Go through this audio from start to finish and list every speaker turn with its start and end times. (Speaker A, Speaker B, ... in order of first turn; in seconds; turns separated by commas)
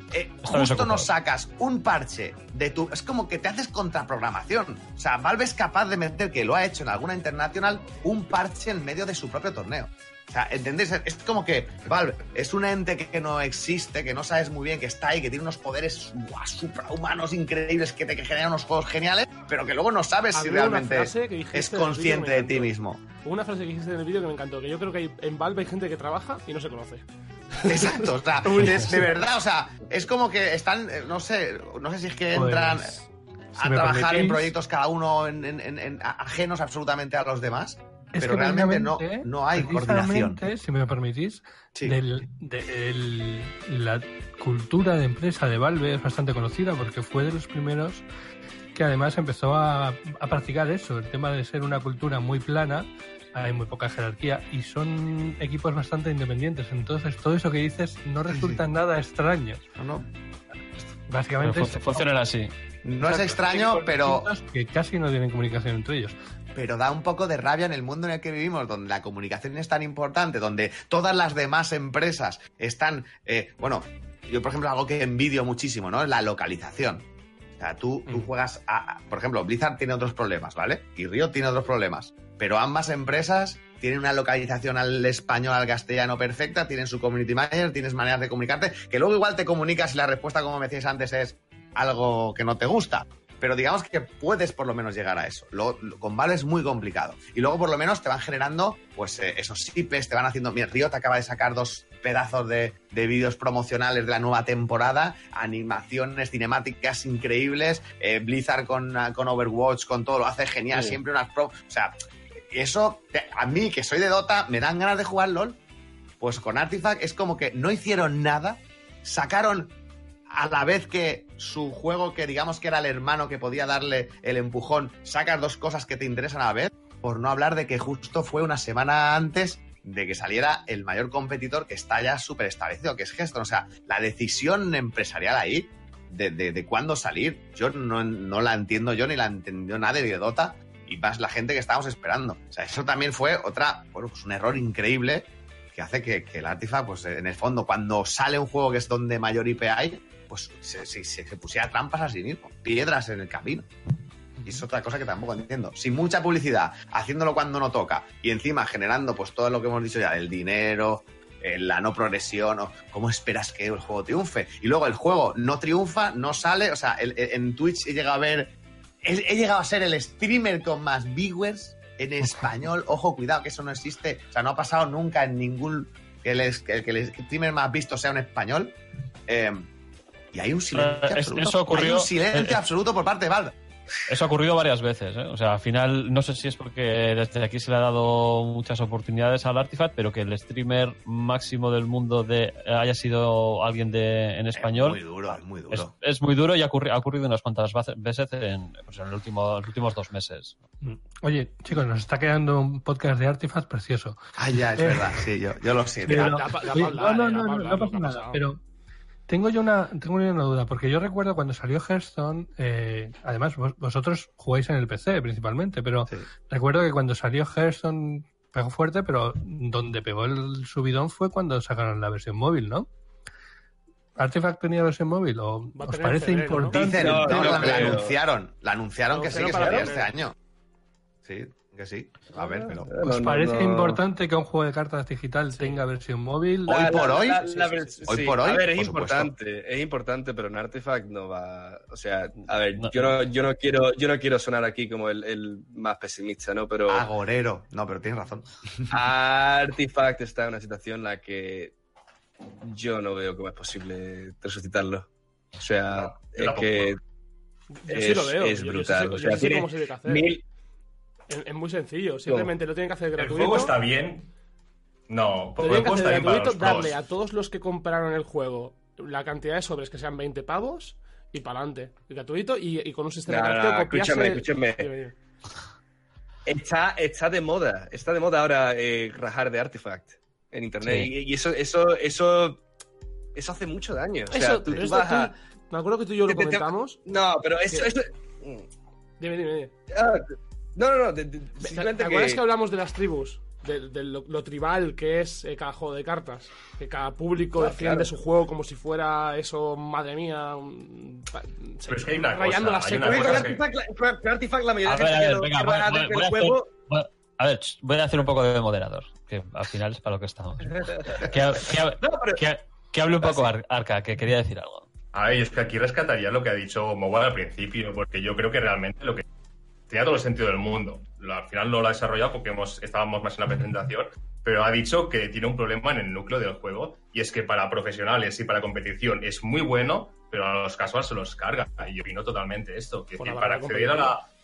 Speaker A: 0.1-23.0, Speaker B: 0.5-1.1, Speaker C: 20.3-22.7, Speaker C: 23.2-27.0, Speaker C: 27.6-29.2, Speaker A: 27.6-33.0, Speaker D: 32.3-33.1, Speaker A: 33.5-40.4, Speaker D: 33.6-34.5, Speaker D: 38.1-48.0, Speaker D: 48.7-59.6, Speaker A: 58.3-58.6, Speaker A: 59.8-60.1, Speaker D: 61.1-62.1, Speaker B: 61.4-62.5, Speaker A: 62.9-64.3, Speaker D: 63.0-66.2, Speaker A: 66.5-77.0, Speaker A: 77.6-111.9, Speaker A: 112.5-115.6, Speaker A: 116.2-119.7, Speaker A: 120.3-153.7, Speaker A: 154.4-168.5, Speaker A: 169.0-178.8, Speaker A: 179.3-179.7, Speaker A: 180.3-183.6, Speaker B: 180.7-182.6, Speaker B: 184.1-195.0, Speaker A: 194.6-195.9, Speaker B: 195.7-200.6, Speaker D: 200.8-204.2, Speaker A: 204.4-206.4, Speaker D: 204.7-205.1, Speaker D: 206.0-208.6, Speaker C: 206.1-208.4, Speaker D: 209.3-222.9, Speaker D: 224.2-228.0, Speaker C: 225.8-226.8, Speaker A: 226.8-230.3, Speaker E: 226.8-228.2, Speaker C: 229.1-230.1, Speaker E: 229.3-229.9, Speaker A: 231.2-232.9, Speaker E: 232.9-234.0, Speaker D: 233.0-236.9, Speaker A: 236.7-237.4, Speaker E: 236.7-247.1, Speaker C: 237.4-238.1, Speaker A: 238.1-239.3, Speaker B: 242.8-243.1, Speaker A: 246.9-249.0, Speaker E: 248.9-251.7, Speaker E: 252.6-255.1, Speaker E: 255.6-257.0, Speaker F: 255.9-257.0, Speaker C: 257.7-260.3, Speaker E: 257.9-260.4, Speaker C: 261.3-263.8, Speaker E: 262.3-262.5, Speaker F: 263.2-264.3, Speaker F: 265.1-266.9, Speaker C: 265.6-275.1, Speaker E: 273.3-274.9, Speaker E: 276.5-282.6, Speaker B: 280.8-281.1, Speaker E: 283.3-285.3, Speaker C: 284.3-287.0, Speaker E: 286.3-288.7, Speaker C: 289.2-289.7, Speaker E: 289.9-292.4, Speaker C: 291.6-303.5, Speaker E: 297.6-298.1, Speaker F: 301.9-303.6, Speaker E: 303.0-306.7, Speaker B: 304.9-314.9, Speaker E: 310.7-311.3, Speaker E: 312.0-312.5, Speaker E: 313.2-313.5, Speaker F: 315.1-319.2, Speaker F: 319.9-334.2, Speaker C: 333.2-334.1